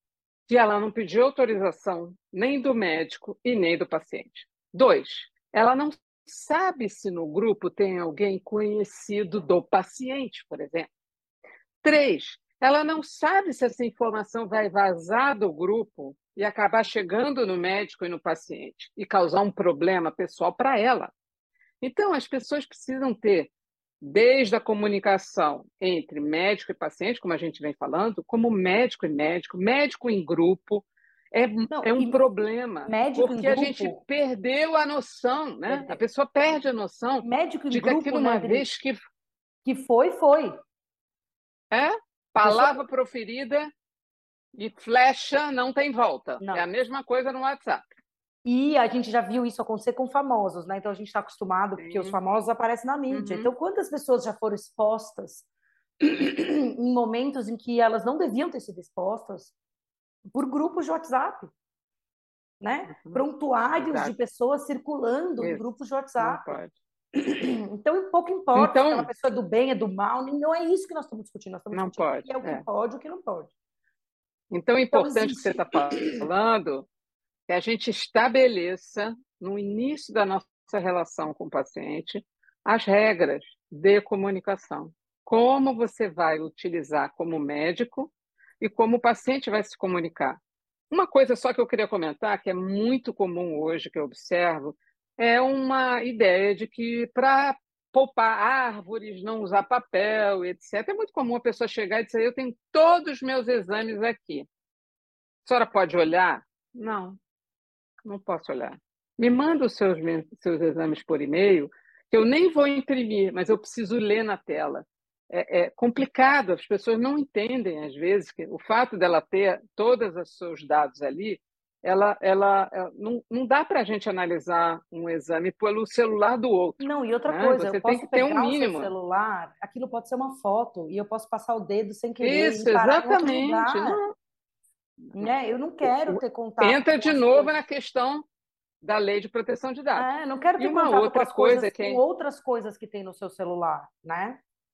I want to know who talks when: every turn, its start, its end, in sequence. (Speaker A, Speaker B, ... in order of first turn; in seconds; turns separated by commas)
Speaker A: 0.5-10.9, Speaker A: 11.8-21.1, Speaker A: 21.8-39.0, Speaker B: 31.7-32.2, Speaker B: 32.8-34.0, Speaker B: 35.7-36.0, Speaker B: 37.2-38.6, Speaker B: 39.6-40.5, Speaker A: 41.7-43.7, Speaker B: 42.4-42.8, Speaker A: 44.5-47.8, Speaker B: 46.4-46.7, Speaker B: 48.4-55.4, Speaker A: 51.8-52.2, Speaker A: 53.1-53.5, Speaker B: 56.0-59.5, Speaker B: 60.3-61.5, Speaker B: 62.6-66.6, Speaker A: 62.9-63.2, Speaker A: 63.8-64.1, Speaker A: 66.2-66.7, Speaker B: 67.1-73.5, Speaker A: 68.5-69.1, Speaker A: 71.7-72.7, Speaker A: 74.5-76.9, Speaker B: 74.9-76.2, Speaker A: 77.5-104.5, Speaker A: 105.4-107.2, Speaker A: 108.0-128.9, Speaker B: 126.8-134.0, Speaker A: 132.2-134.1, Speaker B: 135.1-137.6, Speaker A: 135.8-138.2, Speaker A: 138.8-142.0, Speaker B: 139.9-144.4